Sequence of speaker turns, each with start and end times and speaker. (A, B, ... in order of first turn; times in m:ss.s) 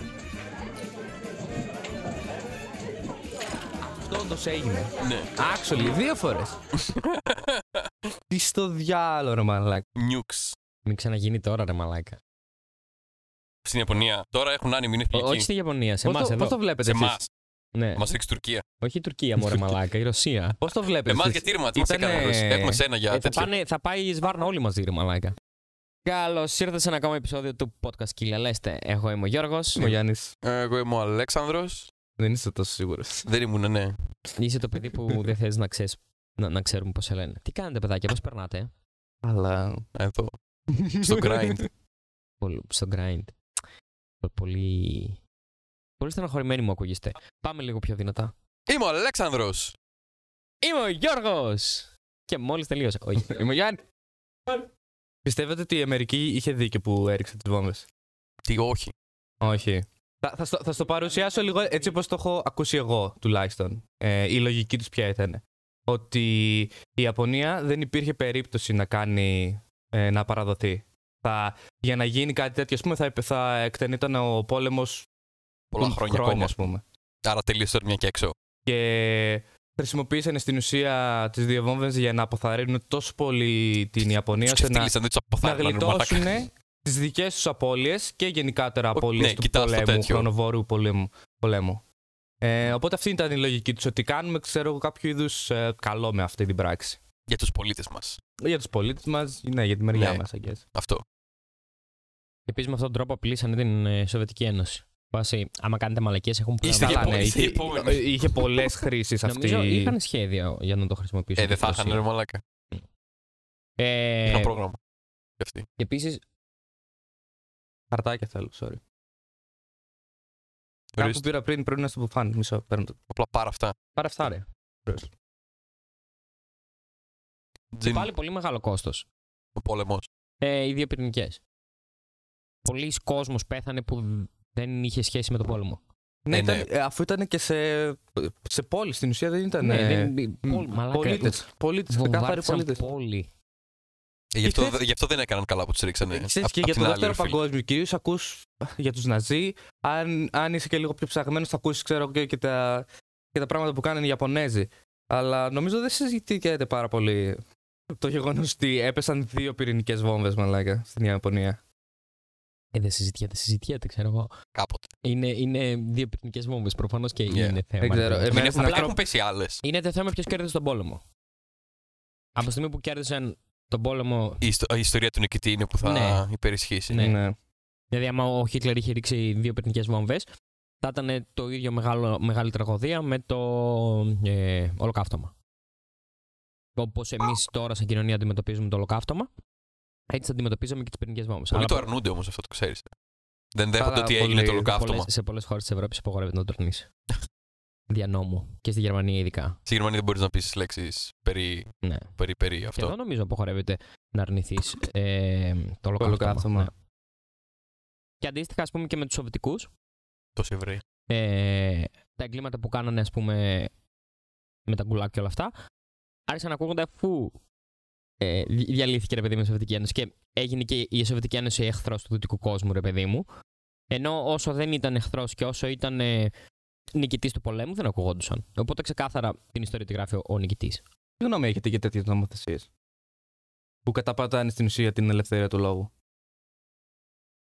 0:04.0-0:06.6 A
0:05.0-0:05.3 B
0:06.8-0:07.8 B
0:08.3-0:09.8 A
0:10.0-0:10.5 B
0:10.8-0:12.2 C
0:13.6-0:15.5 B
0:15.1-0:16.6 C
0:16.0-0:17.2 A
0:16.8-0:17.3 B
0:17.7-0:18.0 C
0:18.0-0:18.6 B
0:18.8-0:20.6 C
0:19.4-0:19.7 B
0:20.6-0:22.8 A
0:21.1-0:23.5 B
0:23.1-0:25.4 C
0:26.0-0:29.9 C
0:29.8-0:30.3 A
0:30.4-0:31.9 B
0:32.2-0:33.3 A
0:33.2-0:34.0 B
0:34.4-0:38.7 C
0:39.2-0:39.9 A
0:40.0-0:40.3 B
0:40.7-0:41.6 A
0:41.0-0:41.7 B
0:42.4-0:43.3 C
0:44.2-0:45.2 C
0:46.0-0:48.3 C
0:48.7-0:49.8 B
0:50.6-0:53.4 C
0:53.2-0:53.8 A
0:55.2-0:57.9 A
0:58.4-0:58.9 B
0:59.4-1:15.1 A
1:15.7-1:16.5 B
1:15.8-1:16.8 A
1:17.2-1:18.3 B
1:18.6-1:24.9 A
1:24.4-1:26.4 B
1:25.4-1:31.8 A
1:28.9-1:30.3 B
1:32.4-1:37.0 A
1:37.3-1:38.2 B
1:38.4-1:40.6 A
1:39.9-1:40.2 B
1:40.7-1:41.0 B
1:42.5-1:47.3 C
1:46.6-1:48.5 B
1:46.8-1:49.9 A
1:49.2-1:52.0 C
1:51.4-1:52.4 B
1:53.8-1:54.5 C
1:54.2-1:54.8 B
1:55.4-1:55.6 B
1:55.8-1:56.2 C
1:57.9-1:58.8 A
2:01.0-2:01.2 B
2:01.0-2:03.0 A
2:03.1-2:03.7 B
2:03.9-2:05.1 A
2:07.7-2:08.1 B
2:07.8-2:09.0 C
2:09.6-2:10.1 B
2:10.4-2:11.4 C
2:12.6-2:15.8 C
2:16.2-2:22.8 A
2:16.3-2:16.6 B
2:19.6-2:23.3 C
2:24.3-2:27.3 B
2:24.4-2:24.8 A
2:26.1-2:41.6 A
2:42.7-2:44.3 C
2:44.5-2:44.9 B
2:45.0-2:48.9 C
2:47.3-2:47.6 B
2:47.8-2:48.9 A
2:48.3-2:49.6 B
2:49.6-2:51.0 C
2:52.4-2:54.4 C
2:54.4-2:57.0 B
2:55.8-2:56.2 C
2:56.9-2:57.2 C
2:57.0-2:57.4 A
2:57.9-3:00.3 C
3:00.8-3:05.3 C
3:06.8-3:09.3 C
3:10.1-3:11.9 C
3:11.5-3:12.9 B
3:13.5-3:15.1 B
3:13.8-3:14.7 A
3:14.7-3:16.9 C
3:17.9-3:19.6 C
3:19.7-3:22.9 B
3:21.8-3:22.1 C
3:22.7-3:26.7 C
3:26.0-3:26.7 A
3:28.2-3:29.7 C
3:30.4-3:30.8 B
3:31.1-3:33.7 C
3:34.7-3:35.5 C
3:36.3-3:37.4 C
3:38.2-3:43.2 C
3:43.9-3:46.3 C
3:46.9-3:50.8 C
3:51.2-3:52.7 A
3:53.8-3:55.9 A